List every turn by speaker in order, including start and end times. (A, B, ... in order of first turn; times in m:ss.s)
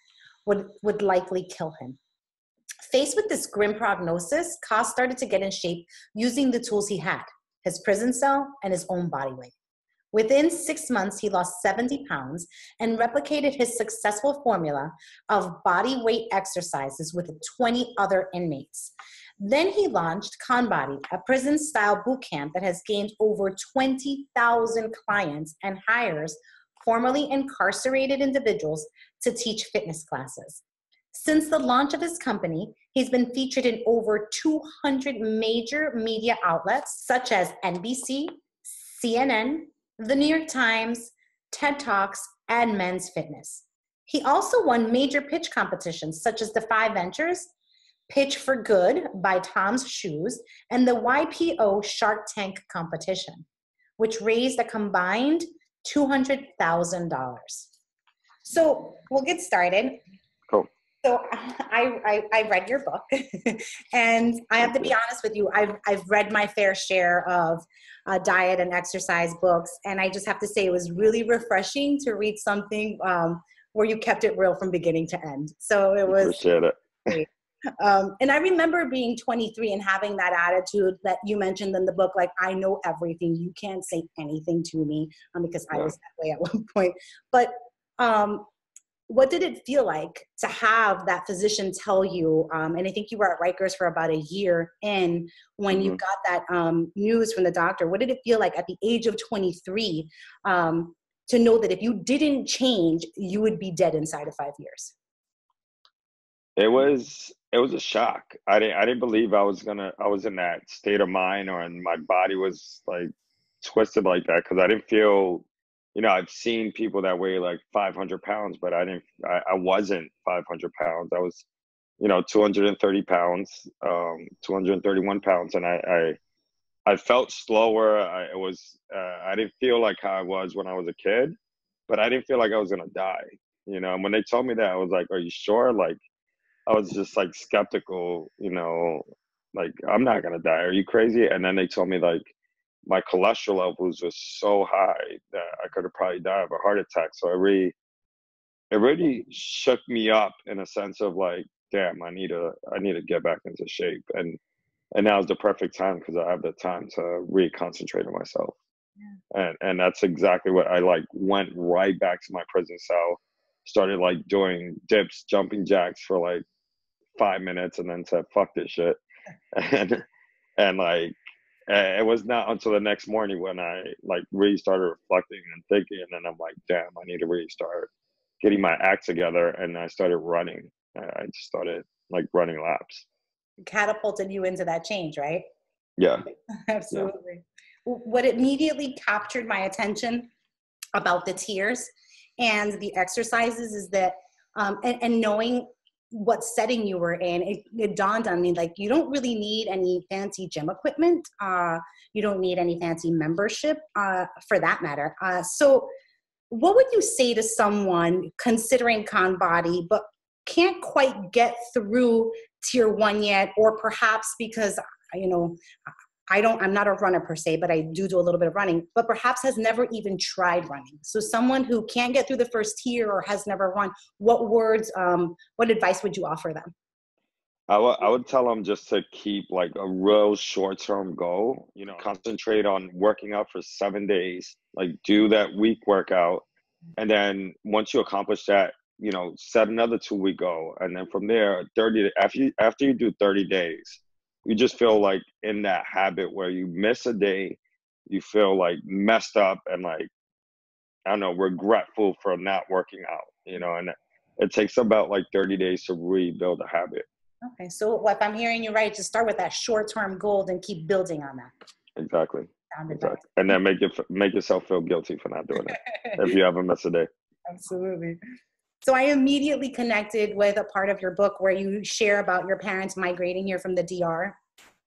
0:00.4-0:02.0 A
0:02.9-0:09.5 A
0:10.1-0:47.5 A
0:48.1-0:53.4 A
0:54.0-0:57.7 A
0:58.4-1:00.0 A
1:01.0-1:16.4 A
1:16.1-1:17.2 B
1:17.8-1:28.5 A
1:29.1-1:44.9 A
1:35.7-1:36.0 B
1:46.6-1:53.1 B
1:53.6-2:01.4 B
2:02.0-2:06.2 B
2:06.8-2:11.4 B
2:11.9-2:16.0 B
2:16.7-2:19.0 B
2:19.5-2:22.3 B
2:22.9-2:27.8 B
2:28.7-2:34.4 B
2:34.9-2:38.6 B
2:39.3-2:46.4 B
2:47.2-2:49.0 B
2:49.5-2:50.0 B
2:50.6-2:51.2 B
2:51.7-2:57.9 B
2:58.4-3:03.1 B
3:03.6-3:05.5 A
3:06.0-3:06.2 B
3:06.5-3:10.3 A
3:11.0-3:25.9 A
3:26.5-3:35.6 A
3:36.3-3:46.7 A
3:47.7-3:56.4 B
3:57.0-4:10.1 B
4:11.1-4:17.0 B
4:17.4-4:21.5 A
4:22.0-4:27.1 B
4:22.7-4:23.2 A
4:25.6-4:26.2 A
4:27.5-4:28.2 A
4:28.8-4:34.4 A